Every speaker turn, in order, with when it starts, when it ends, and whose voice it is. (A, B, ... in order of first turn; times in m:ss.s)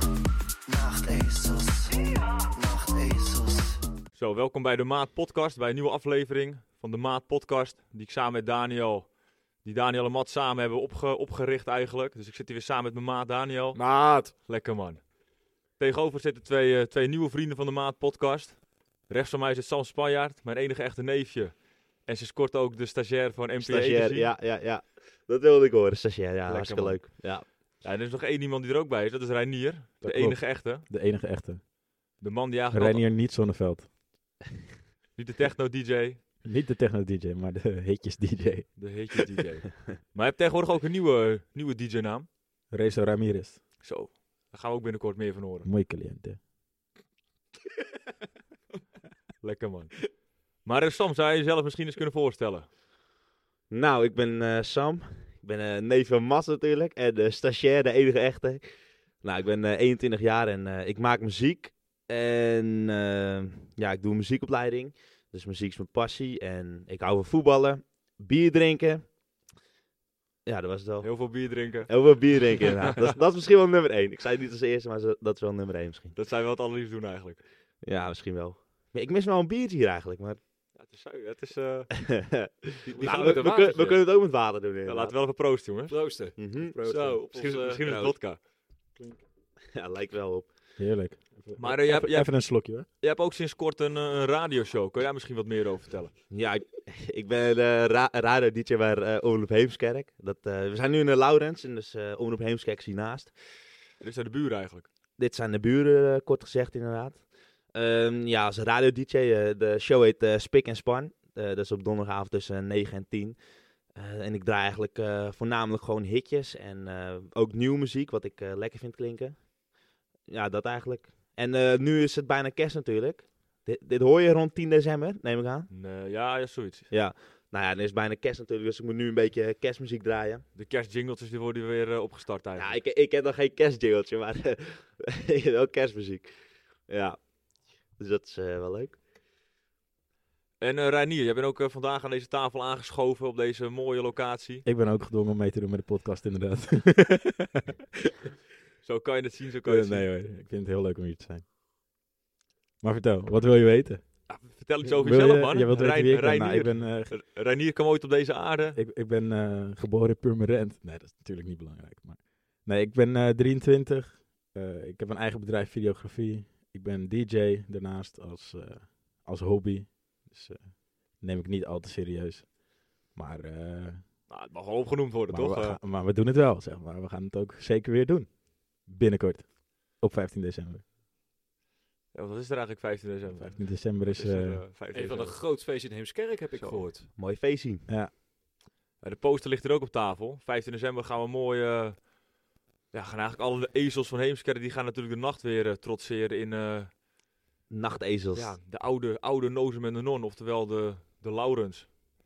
0:01.0-0:01.7 A
0:02.6-0:03.3 A
0:04.1-0:15.1 B
0:13.7-0:14.3 C
0:15.8-0:24.3 B
0:23.6-0:27.4 A
0:26.4-0:30.8 B
0:30.0-0:31.6 D
0:32.2-0:33.1 B
0:32.7-0:33.9 D
0:35.2-0:36.2 B
0:36.4-0:39.2 D
0:38.8-0:42.3 B
0:42.7-0:43.6 D
0:43.8-0:45.7 B
0:45.6-0:46.4 D
0:49.4-0:52.7 B
0:53.7-1:09.1 A
1:10.4-1:16.1 A
1:11.0-1:13.1 B
1:16.1-1:17.4 B
1:17.8-1:20.4 A
1:20.7-1:21.9 B
1:21.9-1:25.2 A
1:22.8-1:23.8 B
1:22.9-1:24.0 C
1:24.8-1:26.0 B
1:25.9-1:27.8 C
1:26.4-1:28.2 A
1:27.3-1:28.4 B
1:29.7-1:30.6 A
1:30.8-1:32.8 D
1:31.6-1:36.1 B
1:36.3-1:43.3 A
1:44.0-1:44.9 B
1:45.2-1:59.5 A
2:00.3-2:05.7 A
2:05.7-2:06.9 B
2:06.9-2:10.4 A
2:10.5-2:12.8 B
2:12.6-2:16.3 A
2:16.9-2:19.0 A
2:20.6-2:24.6 B
2:24.6-2:27.8 D
2:28.8-2:30.1 B
2:29.6-2:31.4 D
2:32.8-2:34.0 D
2:34.2-2:38.8 B
2:34.8-2:37.2 D
2:38.7-2:54.0 D
2:54.3-2:55.8 B
2:55.3-3:00.8 D
3:02.1-3:05.4 B
3:03.3-3:04.6 D
3:04.9-3:07.1 C
3:06.5-3:06.9 B
3:07.1-3:07.9 A
3:07.9-3:08.1 D
3:09.0-3:12.1 B
3:12.9-3:17.0 B
3:17.7-3:18.6 A
3:18.3-3:21.9 B